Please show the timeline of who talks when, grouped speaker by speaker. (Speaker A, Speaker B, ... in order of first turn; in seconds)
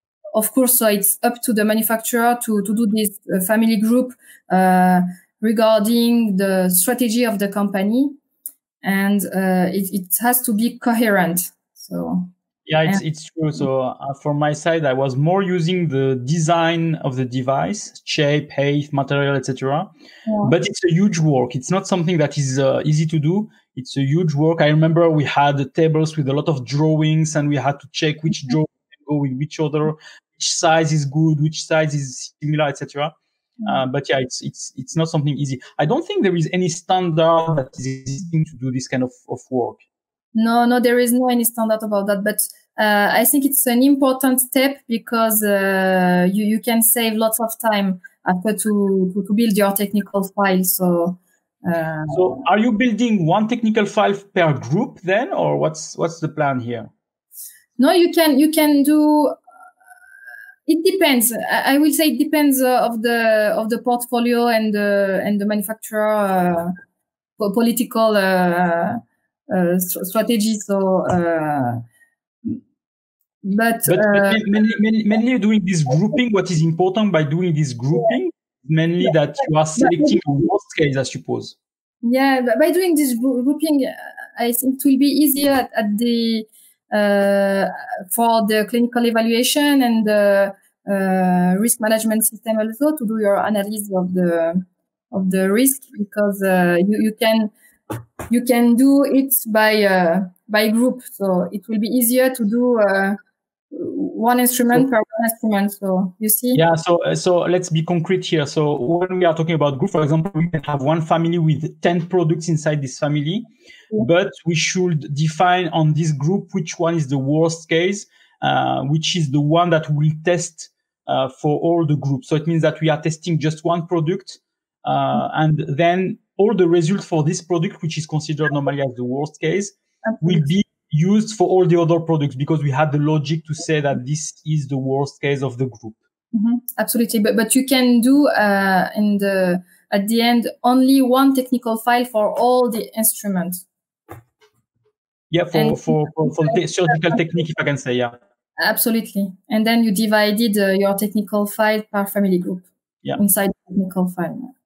Speaker A: 0.3-8.2, 8.8-12.3, 20.2-20.5, 40.3-52.4, 57.8-59.4, 60.7-66.7, 67.4-71.8, 73.4-74.4, 79.8-80.2, 82.0-97.5, 98.3-103.2, 103.7-106.6, 130.0-130.5, 136.3-143.6, 145.5-147.2, 148.6-154.5
Speaker B: 12.7-19.9, 20.4-33.1, 33.6-39.8, 52.1-56.9, 73.9-81.5, 106.5-113.5, 114.0-136.0, 145.3-148.2